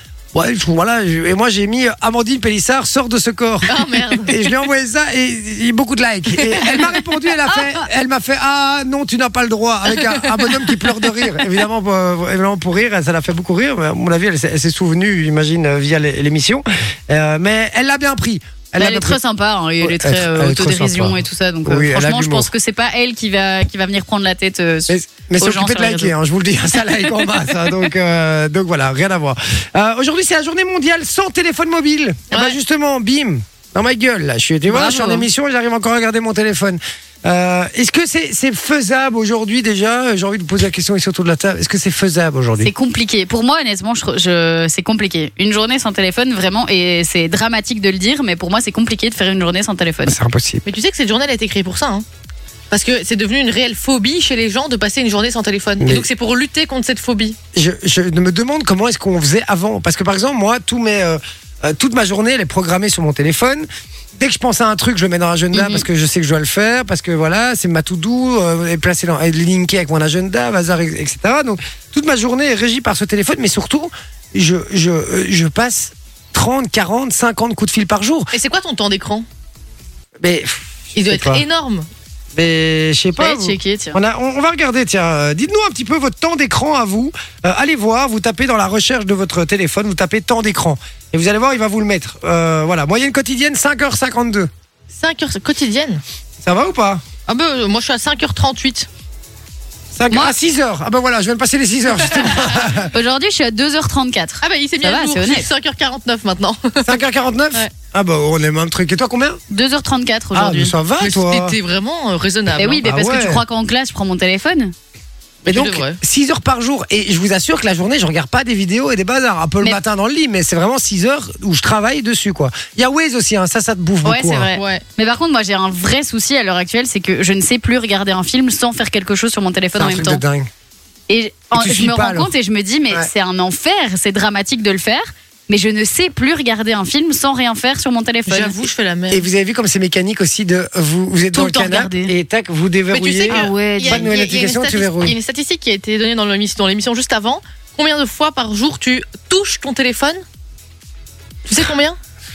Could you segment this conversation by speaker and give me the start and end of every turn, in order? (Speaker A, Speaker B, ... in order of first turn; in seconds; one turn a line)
Speaker A: 0.3-19.2
Speaker B: 3.7-4.3
Speaker B: 6.6-6.8
Speaker B: 9.9-10.9
Speaker C: 18.8-26.1
Speaker A: 19.8-22.5
Speaker A: 24.9-42.7
Speaker B: 32.3-32.6
Speaker C: 34.7-35.3
Speaker C: 42.6-50.2
Speaker A: 50.0-50.6
Speaker B: 50.6-52.0
Speaker B: 52.7-57.4
Speaker A: 55.8-56.1
Speaker A: 57.5-78.3
Speaker B: 65.6-65.8
Speaker B: 78.3-79.2
Speaker A: 80.2-81.4
Speaker B: 81.0-81.9
Speaker A: 82.3-94.5
Speaker C: 83.2-84.0
Speaker B: 94.9-96.0
Speaker A: 96.4-97.0
Speaker B: 97.3-98.9
Speaker A: 99.9-102.9
Speaker B: 102.2-102.6
Speaker C: 102.9-105.5
Speaker B: 104.4-107.0
Speaker A: 106.8-109.4
Speaker C: 109.5-110.7
Speaker A: 110.3-111.6
Speaker B: 111.0-112.9
Speaker C: 112.6-114.7
Speaker A: 112.8-113.4
Speaker B: 115.4-116.0
Speaker A: 115.4-124.5
Speaker C: 124.0-130.2
Speaker B: 124.5-124.8
Speaker A: 129.7-130.5
Speaker C: 131.1-138.6
Speaker A: 131.5-132.3
Speaker B: 138.3-139.2
Speaker A: 139.1-145.2
Speaker C: 141.3-142.1
Speaker B: 142.9-150.2
Speaker C: 143.3-144.1
Speaker B: 151.4-152.0